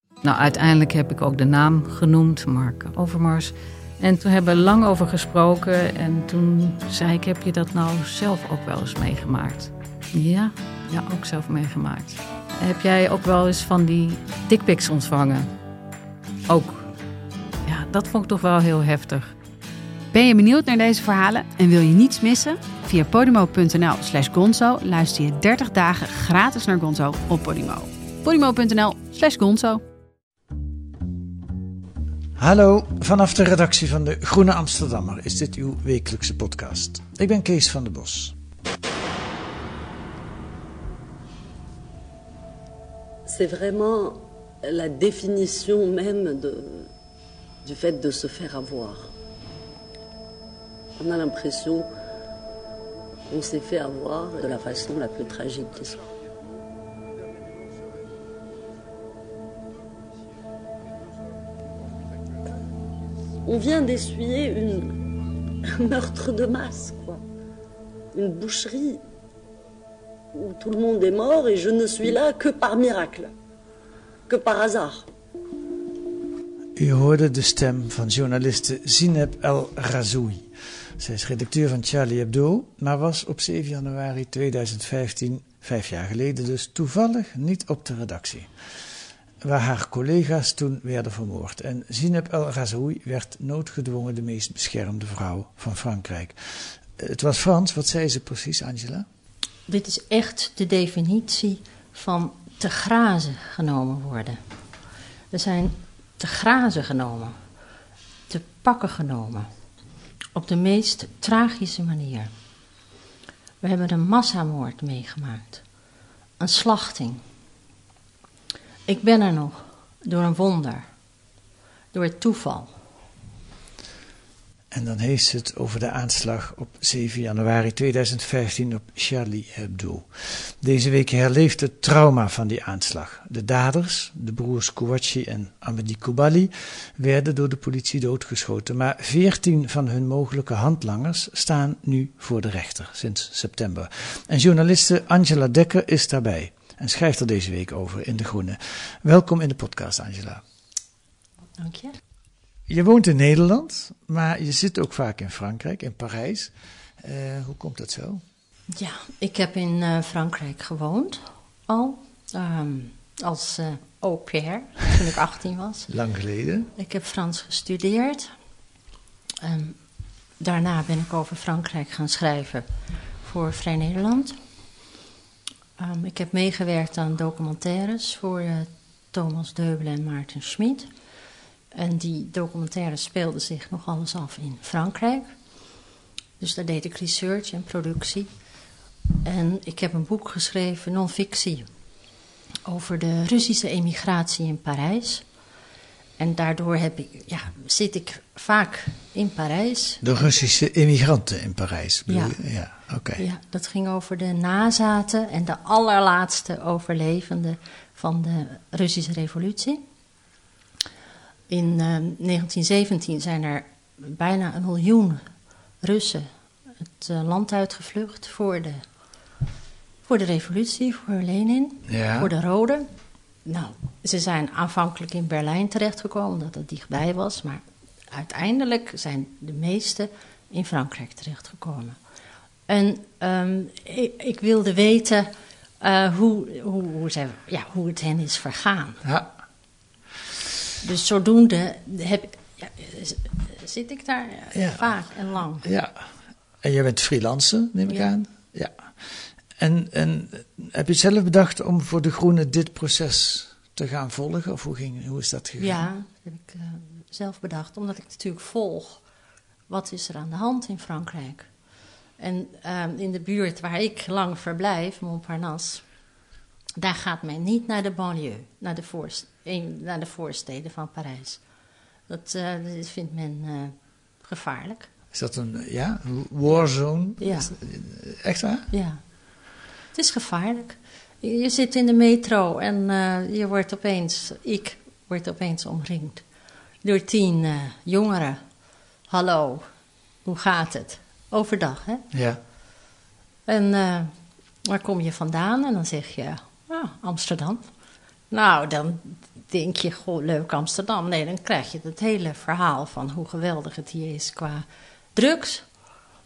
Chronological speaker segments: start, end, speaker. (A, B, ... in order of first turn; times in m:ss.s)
0:00.2-0:15.5 A
0:16.5-0:16.9 A
0:17.6-0:19.4 A
0:20.1-0:29.8 B
0:32.4-0:38.4 C
0:43.3-0:46.9 D
0:47.6-0:49.1 D
0:51.0-0:51.9 D
0:53.3-0:56.0 D
1:03.5-1:05.0 D
1:05.6-1:07.2 D
1:08.1-1:09.0 D
1:10.4-1:13.3 D
1:14.3-1:15.1 D
1:16.8-1:28.5 C
1:29.4-1:39.1 C
1:39.7-1:44.4 E
1:45.3-1:47.4 E
1:48.3-1:49.5 E
1:50.3-1:52.3 E
1:53.6-1:55.6 E
1:56.4-1:57.2 E
1:58.9-2:00.9 E
2:01.9-2:02.7 E
2:04.7-2:30.4 C
2:31.6-2:32.0 E
2:32.7-2:38.2 C
2:38.7-2:45.9 E
2:45.9-2:46.7 C
2:46.8-2:48.3 E
2:49.4-2:49.8 E
2:50.4-2:52.7 E
2:53.2-2:54.4 E
2:55.8-3:00.9 E
3:01.7-3:05.3 E
3:06.4-3:08.3 E
3:09.2-3:11.7 E
3:12.6-3:15.2 E
3:16.2-3:20.2 E
3:20.0-3:23.2 C
3:22.1-3:22.4 E
3:23.2-3:29.8 E
3:31.5-3:35.2 E
3:35.8-3:38.8 E
3:40.0-3:42.9 E
3:41.9-3:42.3 C
3:43.4-3:52.0 E
3:52.7-3:59.0 E
3:59.0-3:59.3 C
4:00.8-4:05.7 E
4:04.5-4:04.9 C
4:05.6-4:06.1 C
4:06.6-4:15.8 C
4:15.6-4:19.0 E
4:19.7-4:21.5 E
4:22.2-4:25.9 E
4:26.8-4:31.4 E
4:32.1-4:34.9 E
4:35.1-4:38.7 C
4:37.2-4:37.5 E
4:38.7-4:39.0 E
4:39.9-4:46.2 E
4:46.8-4:48.4 E
4:49.1-4:49.7 E
4:50.2-4:52.0 E
4:52.1-4:52.4 C
4:53.5-4:54.1 E
4:54.6-4:57.6 E
4:58.3-5:05.6 E